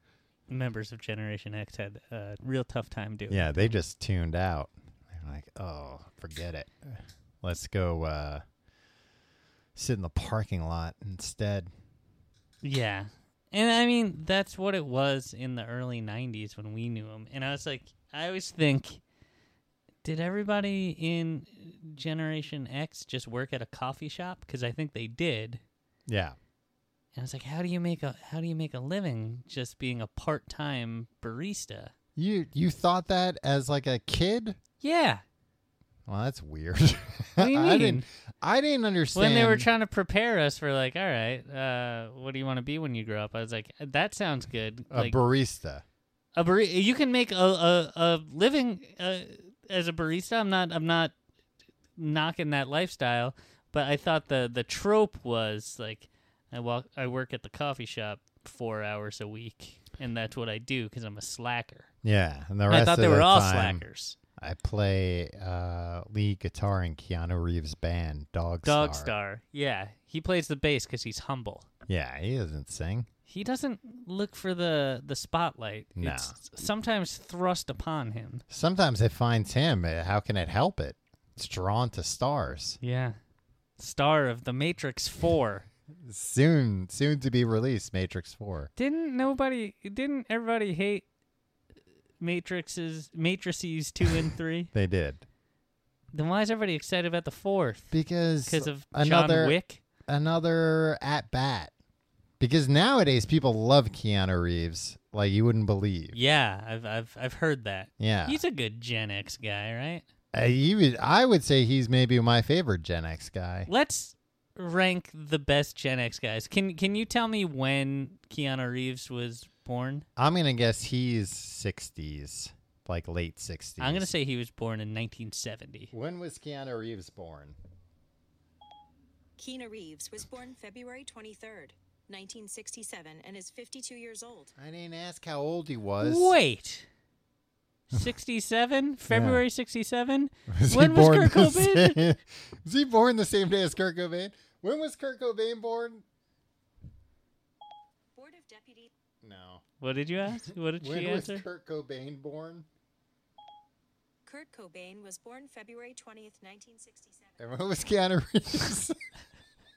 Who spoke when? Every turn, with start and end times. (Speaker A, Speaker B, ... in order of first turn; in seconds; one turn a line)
Speaker A: 0.5-3.7
Speaker B: 3.3-8.4
Speaker B: 9.7-11.7
Speaker A: 12.6-19.0
Speaker A: 20.0-25.6
Speaker B: 26.1-26.4
Speaker A: 27.1-31.9
Speaker B: 32.1-34.6
Speaker A: 34.8-35.2
Speaker B: 36.1-39.7
Speaker A: 37.4-38.0
Speaker A: 39.1-45.2
Speaker B: 44.9-45.8
Speaker A: 46.4-51.1
Speaker A: 52.0-61.9
Speaker B: 62.0-63.8
Speaker A: 62.7-64.2
Speaker B: 64.4-69.1
Speaker A: 68.6-71.7
Speaker B: 71.9-73.1
Speaker A: 73.3-78.4
Speaker B: 76.0-76.4
Speaker B: 78.5-82.8
Speaker A: 82.8-83.2
Speaker A: 83.8-85.7
Speaker B: 86.0-88.7
Speaker A: 88.8-91.0
Speaker A: 92.2-94.7
Speaker B: 94.7-95.2
Speaker A: 96.1-97.9
Speaker B: 97.9-101.7
Speaker A: 98.5-99.8
Speaker B: 102.4-106.2
Speaker A: 106.1-110.0
Speaker B: 108.0-108.4
Speaker B: 110.3-113.7
Speaker A: 113.7-120.0
Speaker B: 120.2-124.1
Speaker A: 123.8-125.9
Speaker B: 125.9-127.5
Speaker C: 129.4-134.5
Speaker B: 134.6-136.3
Speaker A: 136.0-136.8
Speaker A: 137.9-142.0
Speaker B: 139.1-139.4
Speaker B: 140.5-146.0
Speaker C: 148.1-148.9
Speaker B: 149.2-149.6
Speaker A: 149.8-151.4
Speaker B: 150.8-152.7
Speaker C: 154.2-157.4
Speaker B: 157.4-158.9